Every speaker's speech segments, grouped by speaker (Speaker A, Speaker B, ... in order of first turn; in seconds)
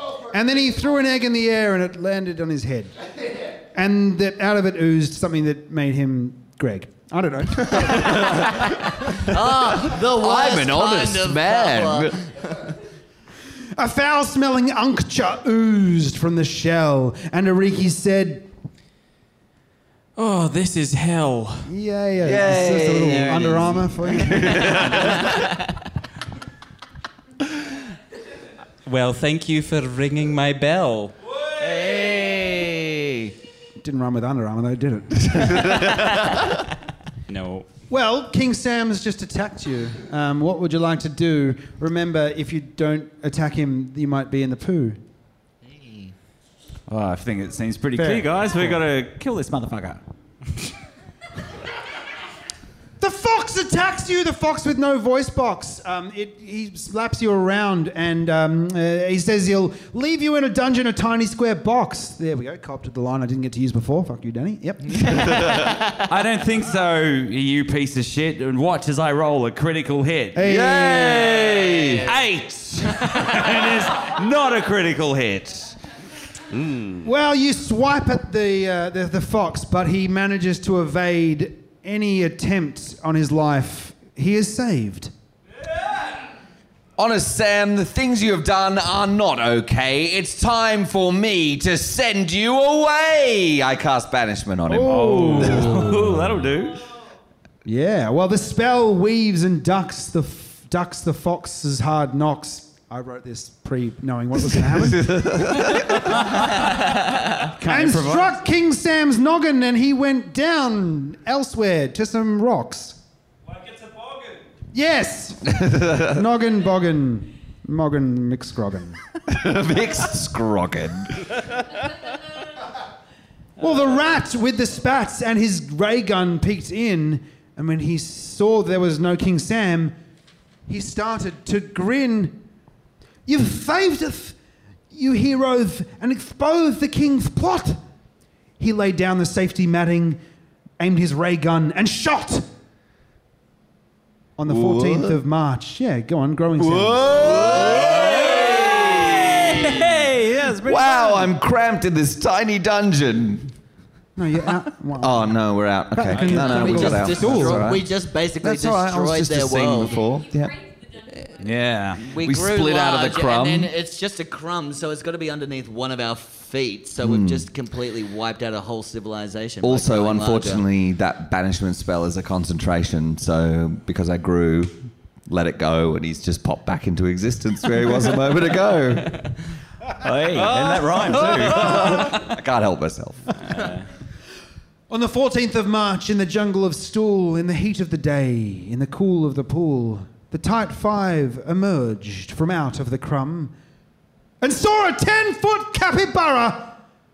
Speaker A: 0.3-2.9, 3.7-8.7, 13.8-18.5, 21.7-25.0, 33.8-36.1, 37.9-45.0, 48.0-48.8, 53.0-65.6, 70.3-71.5, 77.0-85.1, 94.7-96.4, 97.7-106.0, 107.7-113.0, 114.7-119.0, 123.6-129.9, 130.7-132.4, 133.3-134.4, 134.9-137.8, 138.6-140.2, 140.8-142.4, 144.4-147.3, 154.2-155.4, 155.9-157.8, 184.9-193.5, 194.4-196.8
Speaker B: 9.2-12.3, 22.4-23.4, 31.6-33.3, 45.7-46.1, 147.4-148.8, 156.2-160.0, 162.0-170.6
Speaker C: 9.8-12.2, 22.2-25.4, 70.4-72.1, 87.0-95.9, 104.7-106.1, 115.6-116.1, 119.3-121.3, 144.5-145.2, 146.6-149.8, 150.6-153.5, 155.0-157.9, 158.4-161.2, 162.1-163.7, 167.0-167.5, 169.6-174.8, 175.3-179.3, 180.3-183.6
Speaker D: 20.2-21.7, 28.9-31.1, 37.3-37.7, 183.5-183.8
Speaker E: 46.9-50.0, 66.1-70.4, 72.1-75.8, 76.6-77.0, 94.9-96.8, 107.4-108.4, 149.6-151.3, 156.1-156.4, 161.4-162.0, 180.0-182.0